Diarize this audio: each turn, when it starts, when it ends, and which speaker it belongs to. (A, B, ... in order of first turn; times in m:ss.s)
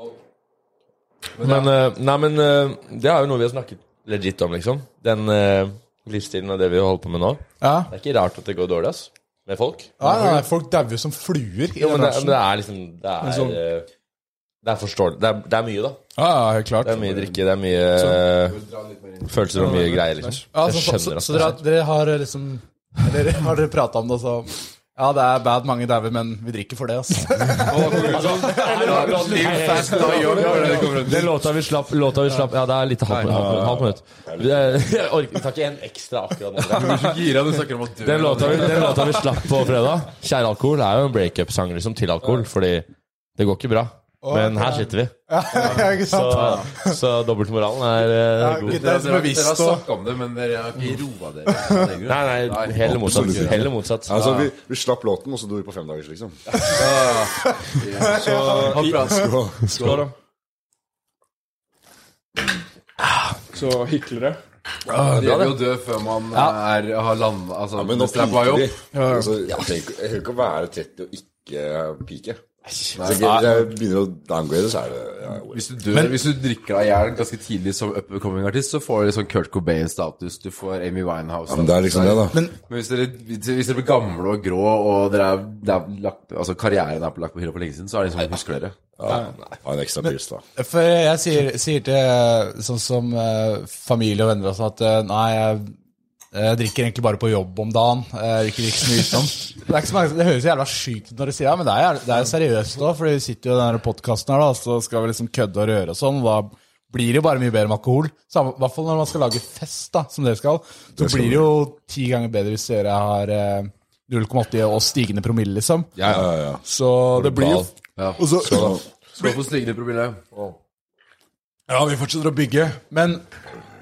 0:01.4-0:09.9 A
0:07.6-0:07.9 B
0:10.0-0:12.4 B
0:10.0-0:10.4 C
0:11.8-0:13.9 A
0:13.2-0:13.6 C
0:14.6-0:16.0 A
0:16.2-0:17.2 B
0:16.8-0:18.6 A
0:18.4-0:19.9 D
0:19.3-0:21.6 A
0:19.6-0:20.4 C
0:20.5-0:30.9 B
0:27.7-0:31.4 D
0:27.8-0:29.2 C
0:27.9-0:37.2 A
0:30.2-0:30.7 C
0:33.1-0:33.4 D
0:33.2-0:34.9 E
0:36.7-0:39.2 D
0:38.0-0:48.8 A
0:44.2-0:47.0 B
0:48.4-0:49.8 B
0:48.7-0:53.6 D
0:52.0-0:54.5 A
0:52.8-0:56.4 E
0:56.6-1:00.1 D
0:58.0-0:58.8 B
0:58.1-0:59.2 C
0:59.0-1:00.0 E
0:59.7-1:00.1 C
1:03.5-1:04.4 C
1:04.9-1:05.6 A
1:05.0-1:08.8 D
1:07.7-1:12.4 E
1:13.0-1:13.4 D
1:13.0-1:15.7 E
1:13.2-1:13.6 A
1:15.5-1:28.8 D
1:21.5-1:22.4 E
1:29.0-1:30.4 E
1:29.0-1:29.5 A
1:30.6-1:35.7 B
1:36.3-1:55.9 B
1:51.0-1:51.5 E
1:56.0-1:57.7 E
1:56.6-1:58.8 B
1:58.4-1:58.8 E
1:59.2-2:00.3 D
2:01.7-2:03.2 B